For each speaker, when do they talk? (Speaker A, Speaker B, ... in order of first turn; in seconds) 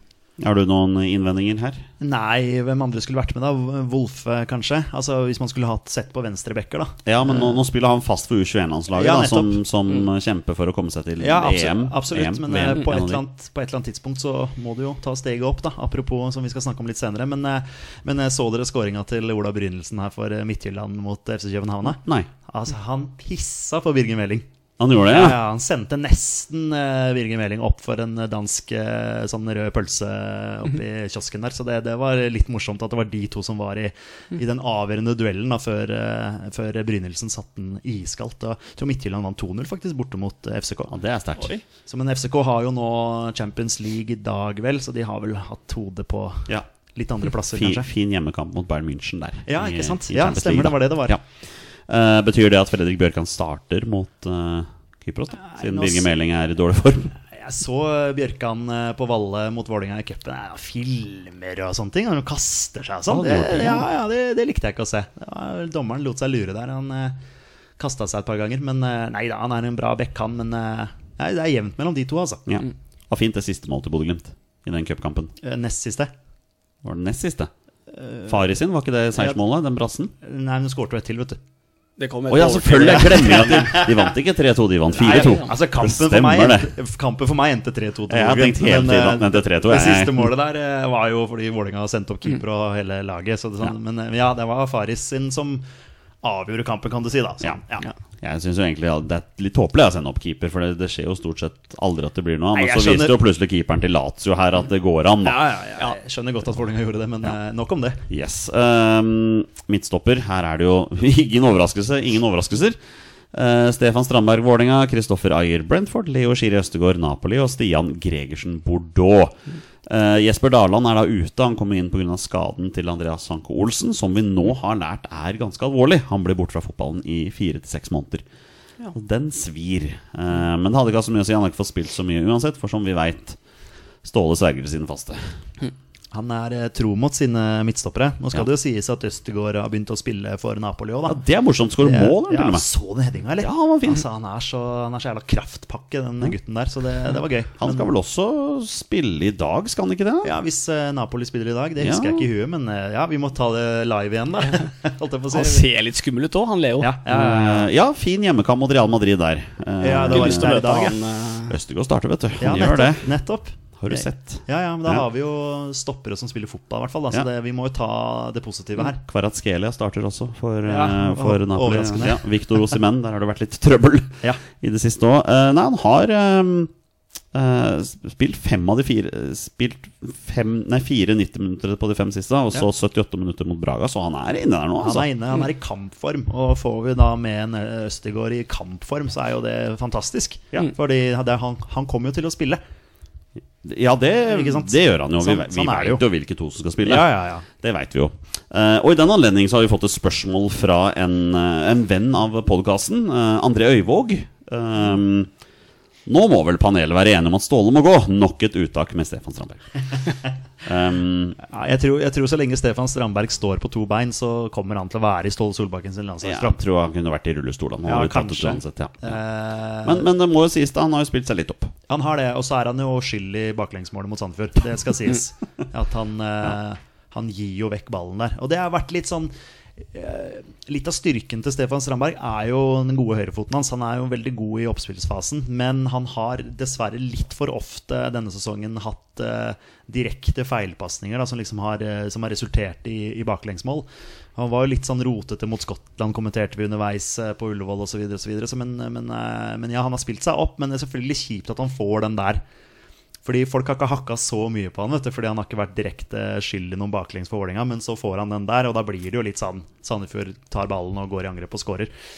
Speaker A: 0.4-1.8, 7.0-13.2, 22.0-22.3, 24.8-25.4, 40.9-41.6, 47.5-51.3, 51.9-57.1, 63.1-63.9, 72.5-75.3, 76.8-77.5, 78.3-80.1, 82.3-86.7, 88.1-90.3, 98.2-105.5, 108.1-112.8, 113.3-128.2, 128.9-133.4, 134.0-135.2, 141.1-142.7, 143.4-144.0, 147.6-150.3, 151.8-152.3, 157.1-160.6, 161.5-163.1, 163.8-165.0, 168.8-176.7, 177.3-185.1, 193.6-205.3, 206.1-209.7, 210.7-211.4, 216.2-219.2, 219.8-221.7
Speaker B: 2.0-7.6, 8.9-9.6, 11.2-24.5, 25.1-40.9, 41.9-47.9, 49.5-51.2, 55.3-56.1, 57.3-67.2, 67.8-72.4, 75.4-76.1, 77.9-78.4, 80.2-81.4, 82.8-84.1, 84.9-95.7, 96.2-97.9, 102.5-103.2, 105.2-108.0, 136.1-141.2, 141.8-147.9, 150.2-155.7, 156.8-157.7, 159.8-161.0, 162.4-169.0, 170.7-172.3, 184.8-192.6, 194.3-196.0, 196.8-197.4, 211.4-216.6, 217.8-220.1, 221.9-252.4, 253.2-261.9
Speaker C: 82.0-83.6, 85.1-85.5, 155.3-156.9, 160.1-161.5